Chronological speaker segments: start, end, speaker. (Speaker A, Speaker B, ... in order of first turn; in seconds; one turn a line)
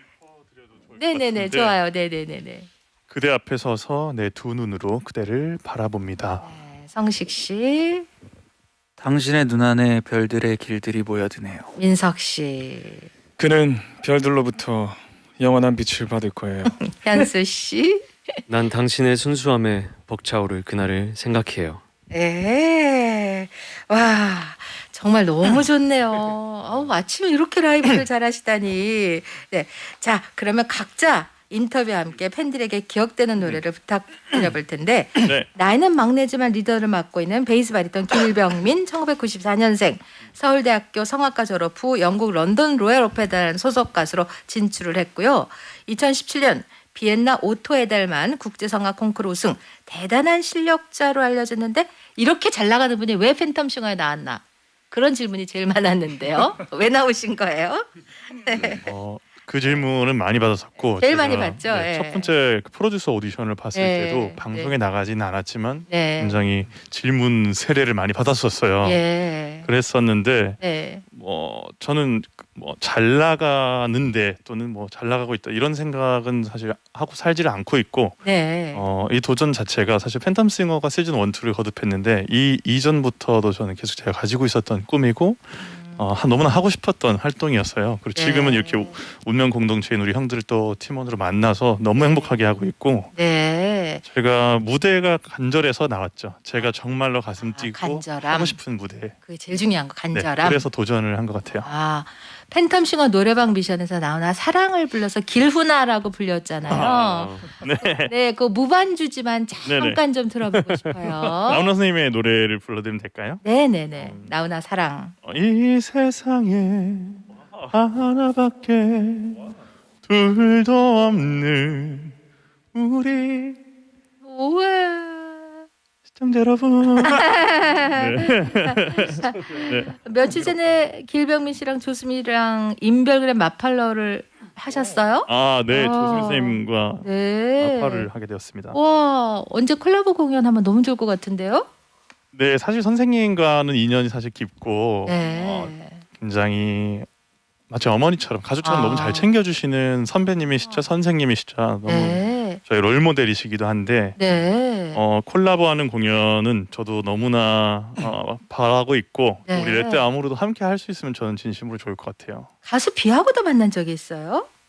Speaker A: 1.0-2.7
Speaker B: 1.1-1.8
Speaker B: 3.1-6.5
Speaker A: 6.4-8.1
Speaker C: 9.0-11.7
Speaker A: 11.8-13.1
Speaker D: 13.4-16.7
Speaker A: 16.9-18.4
Speaker E: 18.5-21.8
Speaker A: 22.1-58.8
Speaker B: 35.2-35.5
Speaker B: 58.8-93.1
Speaker A: 61.0-62.3
Speaker A: 63.7-64.8
Speaker A: 65.9-66.4
Speaker A: 68.8-69.7
Speaker A: 70.6-71.0
Speaker A: 78.2-78.9
Speaker A: 85.6-86.1
Speaker A: 88.2-89.0
Speaker A: 92.0-92.4
Speaker A: 93.1-94.0
Speaker B: 94.0-99.2
Speaker A: 97.4-98.6
Speaker A: 99.2-100.7
Speaker B: 100.1-101.7
Speaker A: 101.6-111.7
Speaker B: 106.7-108.1
Speaker E: 106.8-107.5
Speaker B: 109.7-113.4
Speaker A: 113.4-115.1
Speaker B: 114.0-114.3
Speaker B: 115.2-119.5
Speaker B: 120.0-122.2
Speaker B: 122.7-123.6
Speaker A: 124.2-125.7
Speaker B: 126.1-129.9
Speaker A: 127.0-138.1
Speaker B: 135.3-138.8
Speaker A: 138.7-141.7
Speaker B: 142.3-147.1
Speaker A: 145.1-146.0
Speaker B: 147.7-154.2
Speaker A: 148.6-149.3
Speaker A: 151.9-152.6
Speaker A: 154.2-155.0
Speaker B: 154.9-162.5
Speaker A: 159.5-160.1
Speaker A: 162.6-164.5